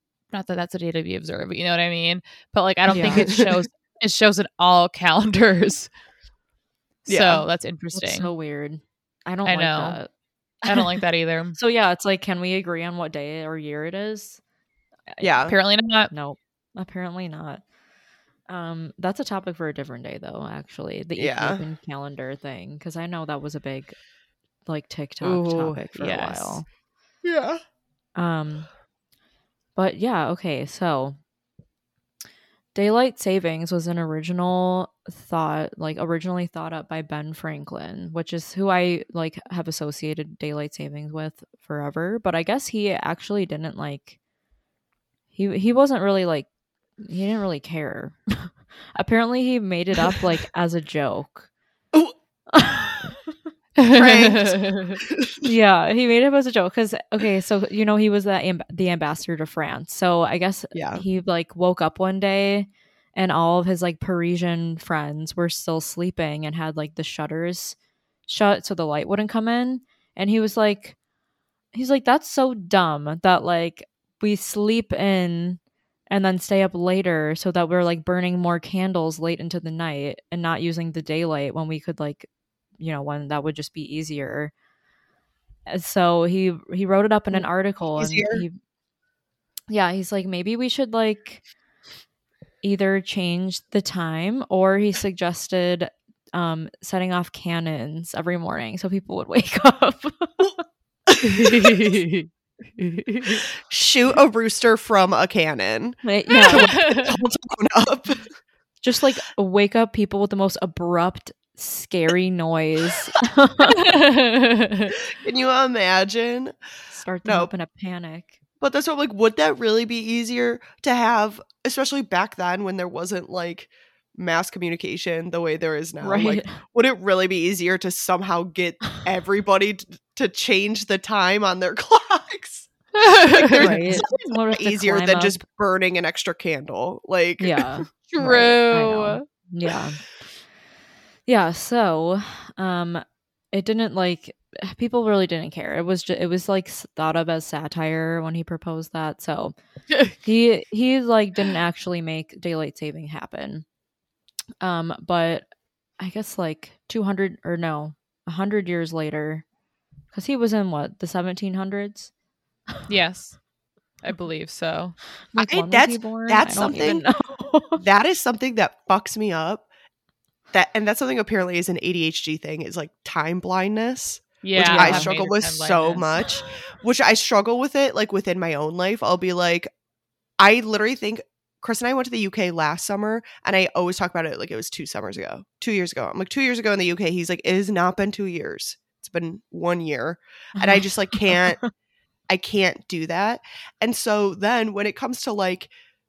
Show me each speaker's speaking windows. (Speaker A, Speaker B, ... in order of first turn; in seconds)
Speaker A: 0.3-5.9, 7.0-8.3, 9.4-10.0, 10.7-11.6, 15.4-16.1, 25.2-26.6, 53.8-55.0, 101.2-102.3, 102.8-103.5, 106.3-107.2, 113.7-114.9, 132.9-134.0, 138.1-139.2, 162.9-163.4, 164.0-165.0, 174.4-176.1
Speaker B: 2.9-3.3, 7.9-10.1, 11.6-14.4, 16.1-17.6, 18.5-24.0, 24.6-26.6, 28.1-28.7, 29.8-31.2, 32.7-44.2, 45.3-46.5, 47.0-51.5, 52.5-53.1, 55.4-67.8, 68.3-71.0, 71.7-84.5, 85.7-88.6, 89.7-91.4, 92.6-100.5, 106.0-106.7, 108.8-113.8, 116.9-118.3, 126.0-126.6, 133.6-135.4, 137.4-140.0, 141.3-149.5, 150.2-153.7, 154.6-159.4, 160.1-162.1, 165.3-167.8, 174.6-175.1, 190.6-191.7
Speaker C: 3.0-3.6, 7.1-7.4, 15.2-15.5, 21.2-21.6, 27.2-27.6, 53.9-55.5, 60.7-61.0, 87.3-88.4, 101.1-101.7, 103.6-108.3, 115.2-116.5, 117.2-117.5, 118.6-132.7, 133.3-137.8, 165.4-167.1, 167.8-169.7, 170.5-179.7, 180.4-191.6, 192.3-195.7